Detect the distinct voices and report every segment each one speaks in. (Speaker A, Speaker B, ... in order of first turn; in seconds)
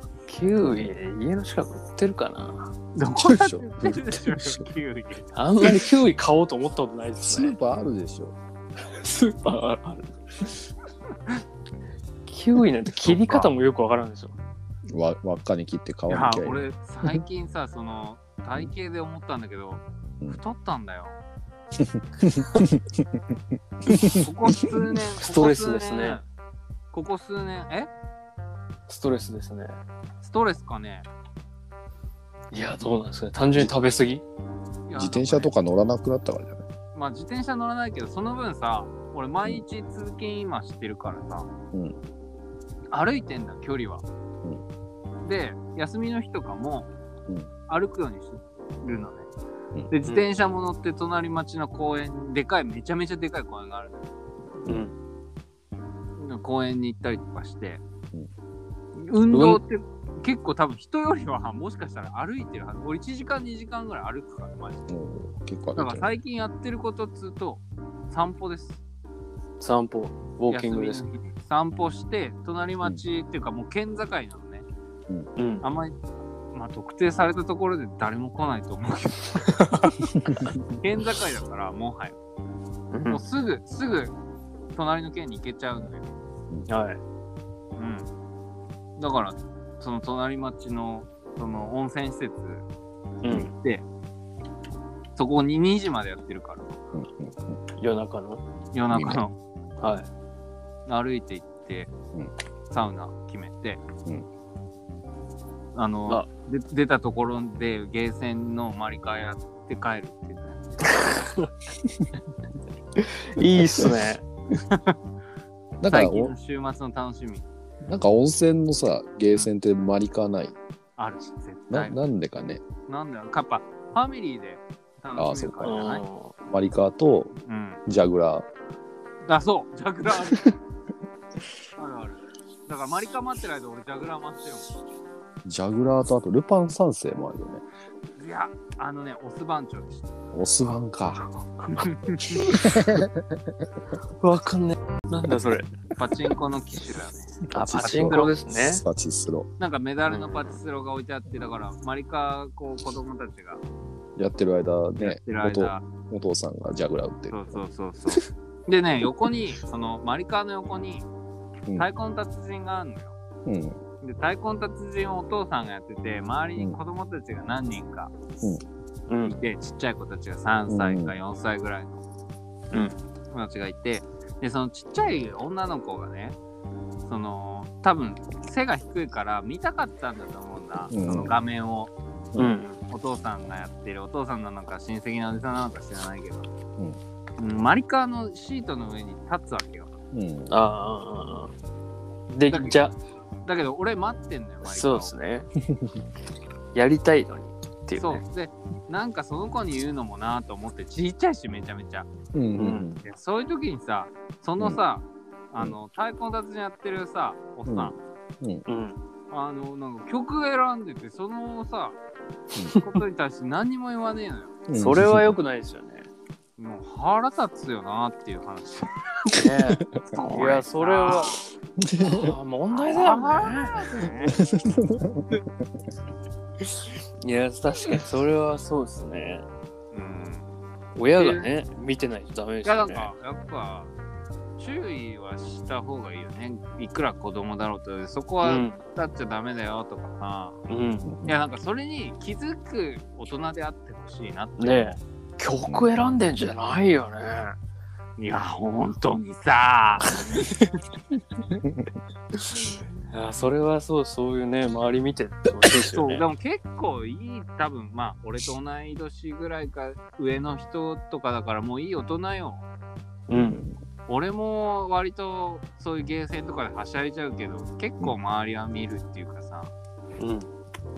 Speaker A: 0.3-2.7, 5.3-7.5, 8.9-10.5, 12.3-14.3, 25.2-26.2, 28.9-29.8, 32.5-34.2, 54.6-54.9, 59.3-59.6, 69.6-71.0, 75.4-75.7, 82.9-83.2, 86.7-87.0, 93.2-93.5, 97.8-98.4, 99.8-100.1, 110.9-111.5, 113.0-114.2, 125.6-126.3, 144.2-145.7, 147.5-148.8, 150.1-150.6, 169.1-169.4, 172.7-173.0, 182.4-182.8, 190.5-191.5, 192.3-193.0, 194.6-195.5, 196.7-198.2, 202.6-203.0, 208.7-209.0, 214.8-216.1, 219.3-221.4, 222.0-223.8, 227.2-229.5, 231.0-233.1, 238.4-238.8, 240.7-241.1, 244.6-247.6, 253.1-256.2, 263.3-263.6, 270.2-270.5
Speaker B: 0.6-0.9, 3.2-4.6, 7.2-8.4, 14.9-17.2, 21.8-23.2, 23.8-24.8, 35.0-36.6, 41.7-42.0, 64.9-66.2, 80.2-80.6, 96.9-97.6, 98.9-99.2, 113.6-113.9, 115.8-116.3, 117.8-120.6, 121.7-122.6, 125.2-125.9, 126.5-127.3, 127.9-128.5, 135.4-137.6, 140.3-141.3, 142.4-143.5, 147.5-149.5, 154.2-157.6, 163.5-163.8, 170.7-171.2, 180.9-181.3, 182.3-182.6, 190.1-190.5, 195.7-196.0, 202.3-203.0, 207.7-208.7, 214.7-215.4, 221.8-222.3, 224.4-225.4, 241.1-241.4, 245.7-245.9, 251.5-251.9, 263.4-263.8
Speaker C: 3.0-5.3, 13.1-13.5, 16.1-21.2, 24.2-26.2, 26.9-27.9, 30.2-31.1, 34.9-35.5, 36.9-41.5, 42.9-44.0, 45.2-46.9, 47.7-49.3, 49.9-54.1, 56.2-57.8, 59.0-64.9, 65.8-68.8, 70.5-74.7, 75.6-75.9, 76.5-80.0, 80.8-82.2, 83.1-84.2, 84.8-86.1, 87.8-88.1, 89.0-92.7, 93.3-93.8, 95.2-96.8, 98.7-99.3, 100.9-101.9, 102.7-103.8, 105.8-111.0, 114.7-115.0, 115.9-117.5, 121.0-122.0, 122.9-126.0, 127.5-127.8, 129.2-130.5, 131.8-134.7, 138.2-140.1, 141.8-142.4, 146.0-148.3, 149.6-153.6, 155.0-155.8, 157.3-161.1, 161.8-163.2, 164.0-168.1, 169.2-172.0, 173.3-176.4, 177.1-181.9, 182.9-186.5, 187.4-189.9, 192.5-192.8, 193.4-195.1, 198.0-202.1, 203.0-207.9, 209.3-212.0, 212.7-214.6, 216.6-219.3, 220.1-221.5, 222.9-224.4, 229.9-230.5, 231.2-231.5, 232.7-233.9, 234.6-240.6, 241.3-245.0, 248.2-250.4, 255.9-262.6, 264.1-269.7